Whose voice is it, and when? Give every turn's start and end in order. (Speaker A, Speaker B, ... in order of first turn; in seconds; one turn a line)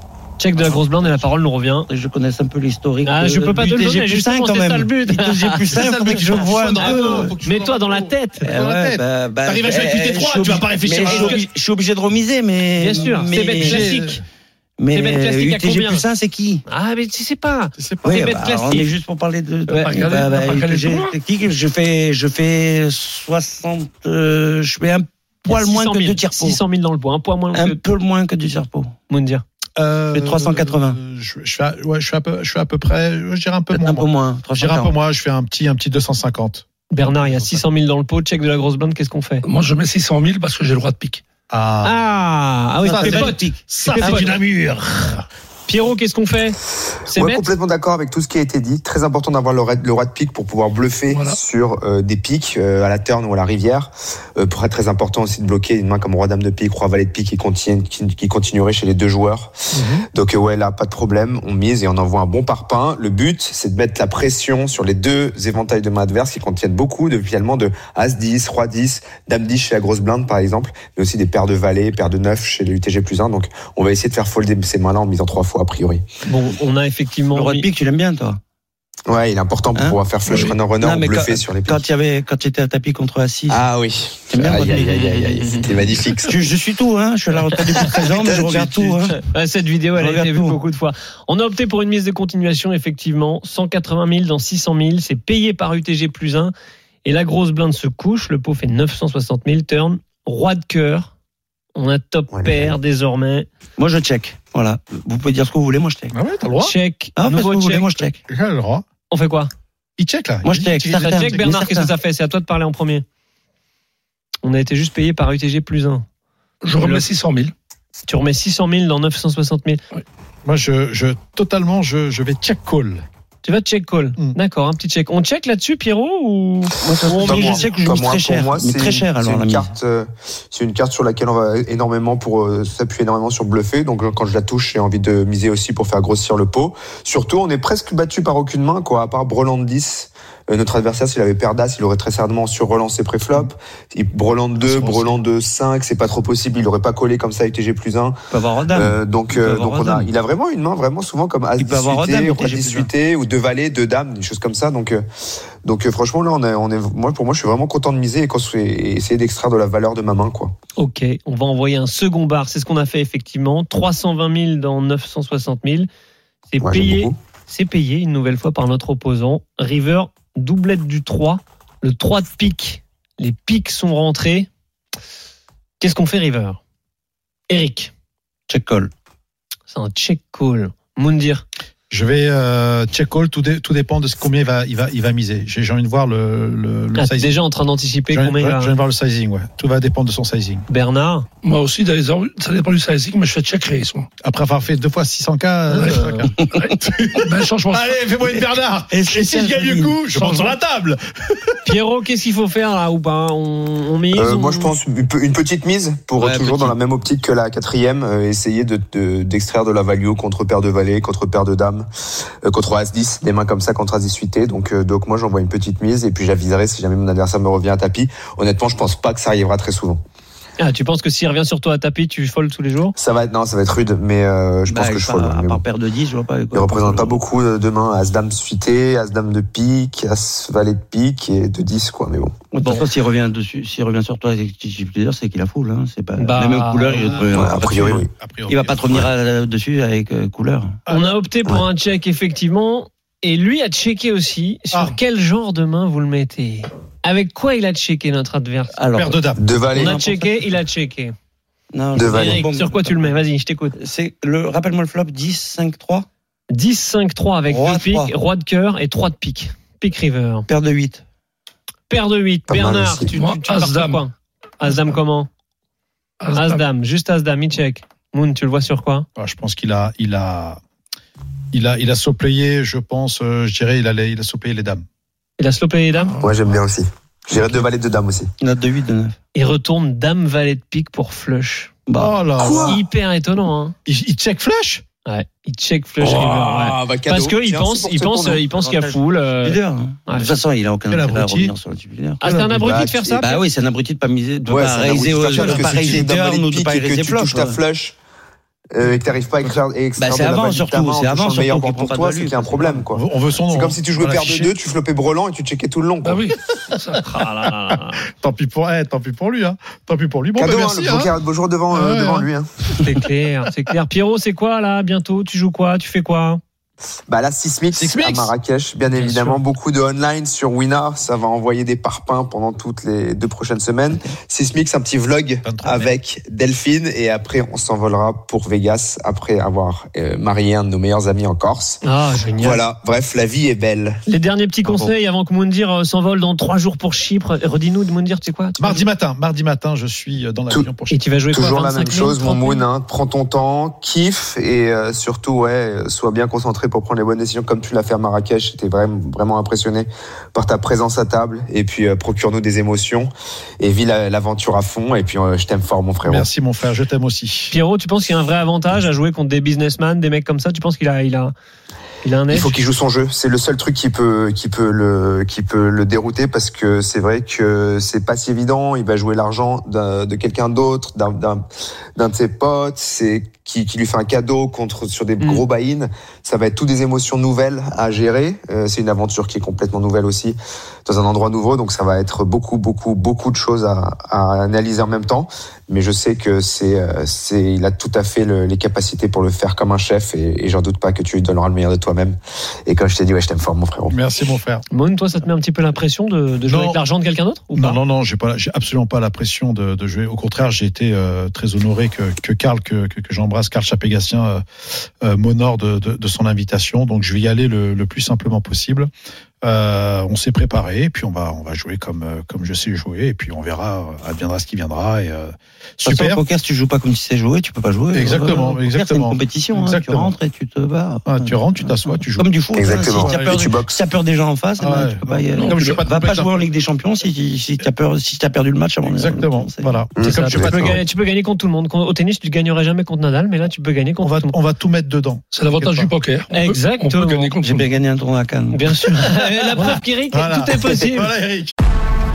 Speaker A: 0.4-1.9
Speaker B: 1.9-7.4
Speaker A: 3.0-8.6
Speaker C: 5.7-11.4
Speaker B: 8.4-13.9
Speaker A: 11.0-11.4
Speaker A: 12.8-14.2
Speaker C: 13.6-14.2
Speaker B: 14.8-16.6
Speaker A: 14.9-16.1
Speaker A: 16.7-18.9
Speaker C: 17.8-18.2
Speaker B: 18.0-26.6
Speaker A: 19.7-20.0
Speaker D: 19.7-21.2
Speaker A: 25.5-27.8
Speaker B: 27.5-28.9
Speaker A: 29.1-29.4
Speaker C: 29.8-36.6
Speaker B: 30.1-31.0
Speaker B: 33.7-34.9
Speaker A: 36.9-39.4
Speaker D: 39.4-41.2
Speaker C: 41.5-42.0
Speaker A: 41.8-44.4
Speaker B: 42.8-44.5
Speaker C: 42.8-44.3
Speaker D: 44.4-45.2
Speaker A: 45.7-47.6
Speaker E: 47.1-59.5
Speaker D: 51.1-51.4
Speaker D: 59.7-60.0
Speaker E: 60.1-76.0
Speaker A: 76.3-77.7
Speaker B: 77.3-78.4
Speaker E: 79.1-81.8
Speaker D: 80.3-80.5
Speaker B: 80.8-83.6
Speaker E: 83.5-86.4
Speaker B: 84.3-89.2
Speaker E: 87.9-88.9
Speaker A: 89.2-96.5
Speaker B: 90.0-90.6
Speaker A: 97.0-101.1
Speaker A: 101.8-103.5
Speaker E: 102.3-102.8
Speaker B: 103.8-106.2
Speaker C: 106.1-106.7
Speaker A: 106.6-108.1
Speaker B: 107.2-108.2
Speaker C: 108.3-108.8
Speaker A: 109.1-109.5
Speaker C: 110.0-111.5
Speaker B: 110.4-111.9
Speaker A: 111.0-113.0
Speaker A: 114.4-116.0
Speaker D: 116.6-117.5
Speaker A: 116.8-117.1
Speaker A: 118.1-119.8
Speaker C: 120.5-123.0
Speaker A: 123.4-127.7
Speaker B: 126.8-129.7
Speaker E: 127.1-148.2
Speaker C: 144.6-145.1
Speaker B: 148.3-150.1
Speaker E: 148.7-155.0
Speaker B: 151.6-152.9
Speaker E: 155.6-160.6
Speaker A: 160.8-165.9
Speaker A: 166.5-174.5
Speaker E: 166.6-167.2
Speaker A: 175.8-176.6
Speaker A: 177.5-177.9
Speaker B: 178.5-178.9
Speaker A: 179.7-181.4
Speaker C: 181.9-187.4
Speaker A: 187.0-188.8
Speaker C: 188.1-190.7
Speaker A: 190.7-191.3
Speaker D: 191.4-194.1
Speaker C: 194.2-201.6
Speaker D: 195.8-198.0
Speaker A: 195.9-196.3
Speaker B: 196.2-196.6
Speaker B: 198.3-200.6
Speaker A: 201.7-204.7
Speaker E: 204.1-211.9
Speaker B: 206.2-206.8
Speaker E: 212.4-220.0
Speaker A: 220.6-222.9
Speaker E: 223.0-225.6
Speaker B: 224.7-227.2
Speaker E: 226.5-232.3
Speaker B: 232.5-240.8
Speaker A: 236.2-237.3
Speaker C: 237.0-239.1
Speaker E: 237.3-238.1
Speaker C: 240.9-241.1
Speaker A: 240.9-248.8
Speaker B: 248.7-250.4
Speaker C: 248.9-249.4
Speaker E: 249.4-249.9
Speaker A: 249.7-251.1
Speaker B: 251.7-253.2
Speaker E: 251.9-252.5
Speaker A: 252.1-253.8
Speaker B: 253.8-256.1
Speaker A: 256.5-260.5
Speaker B: 257.5-258.1
Speaker B: 260.5-261.0
Speaker A: 261.9-265.3
Speaker E: 262.5-263.1
Speaker D: 263.1-264.0
Speaker D: 264.7-265.0
Speaker D: 266.2-266.6
Speaker A: 266.3-269.1
Speaker C: 269.2-270.6
Speaker C: 271.5-274.8
Speaker A: 275.4-276.2
Speaker E: 276.2-278.3
Speaker B: 278.4-279.2
Speaker A: 279.4-281.7
Speaker B: 281.9-282.8
Speaker C: 281.9-282.8
Speaker A: 282.7-283.7
Speaker C: 283.9-284.8
Speaker A: 285.1-290.3
Speaker E: 286.0-288.4
Speaker B: 288.5-292.2
Speaker C: 290.9-291.6
Speaker A: 292.2-293.4
Speaker C: 292.2-292.8
Speaker E: 292.6-293.3
Speaker B: 293.2-297.6
Speaker E: 294.5-298.0
Speaker C: 295.3-296.1
Speaker E: 298.7-306.3
Speaker C: 298.8-299.6
Speaker B: 300.0-302.9
Speaker C: 302.9-304.5
Speaker D: 306.0-307.0
Speaker A: 307.0-308.0
Speaker C: 308.2-311.1
Speaker E: 310.4-312.5
Speaker C: 311.7-312.9
Speaker A: 312.8-316.4
Speaker E: 317.1-331.8
Speaker C: 317.7-318.3
Speaker C: 318.9-319.4
Speaker C: 325.4-325.9
Speaker A: 331.8-332.6
Speaker E: 332.4-334.0
Speaker A: 334.1-338.9
Speaker B: 334.7-334.9
Speaker C: 338.6-341.1
Speaker A: 340.9-342.7
Speaker E: 341.3-356.3
Speaker C: 356.0-357.6
Speaker A: 357.5-361.3
Speaker A: 362.0-362.6
Speaker E: 362.3-394.0
Speaker C: 393.9-394.6
Speaker A: 394.7-397.8
Speaker C: 396.5-396.8
Speaker C: 397.5-404.4
Speaker C: 405.0-408.9
Speaker C: 409.4-416.2
Speaker B: 415.8-429.8
Speaker C: 417.9-420.2
Speaker C: 421.1-423.5
Speaker E: 422.5-423.7
Speaker C: 424.6-426.4
Speaker D: 425.4-425.8
Speaker C: 428.8-430.8
Speaker E: 430.0-430.8
Speaker A: 430.0-434.4
Speaker C: 434.0-436.0
Speaker D: 435.3-437.7
Speaker A: 436.3-437.3
Speaker B: 437.4-438.6
Speaker A: 438.5-441.1
Speaker C: 439.6-441.5